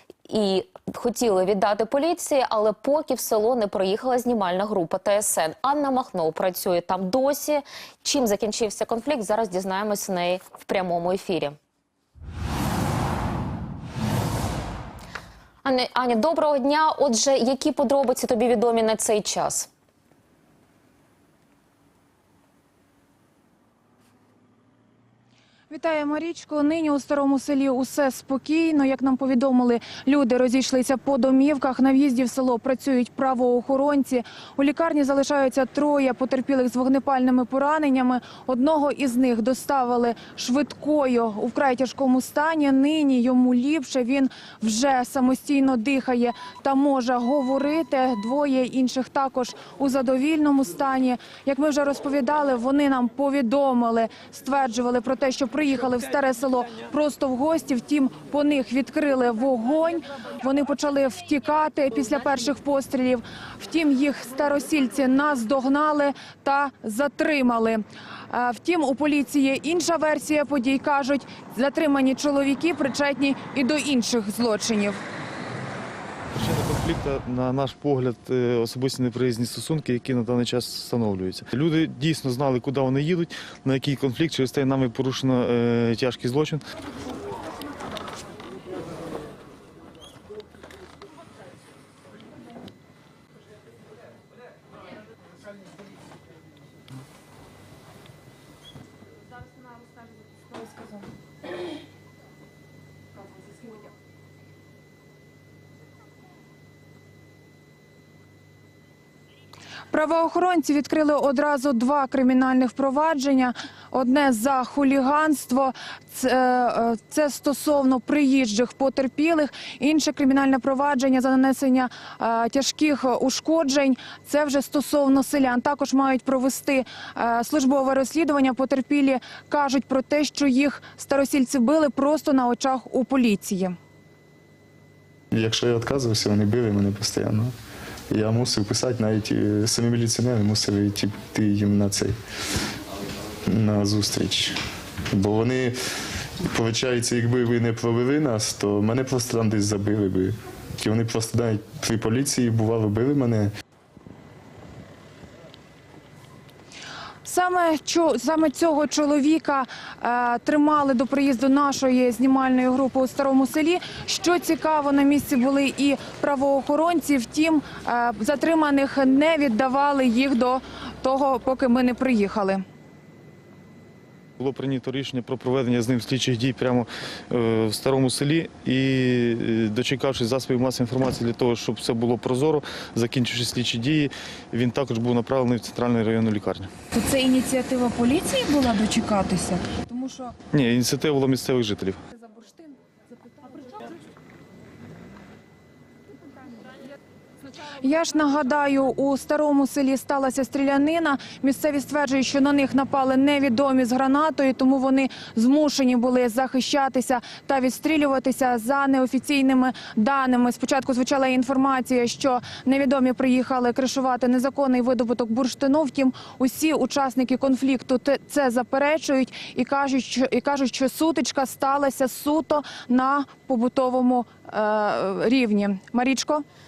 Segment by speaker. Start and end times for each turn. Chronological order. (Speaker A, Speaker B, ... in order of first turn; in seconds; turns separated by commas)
Speaker A: 0.3-11.5, Speaker A: 15.6-19.7, Speaker B: 25.7-75.0, Speaker C: 76.3-86.6, Speaker B: 109.9-133.8, Speaker D: 135.3-137.5, Speaker D: 138.1-142.2, Speaker D: 143.4-144.6, Speaker D: 145.1-145.7, Speaker D: 146.4-153.5, Speaker B: 157.2-172.6, Speaker C: 174.4-186.7, Speaker B: 186.9-190.3, Speaker C: 190.5-192.0, Speaker B: 192.3-192.7, Speaker B: 193.3-193.8, Speaker B: 197.7-226.4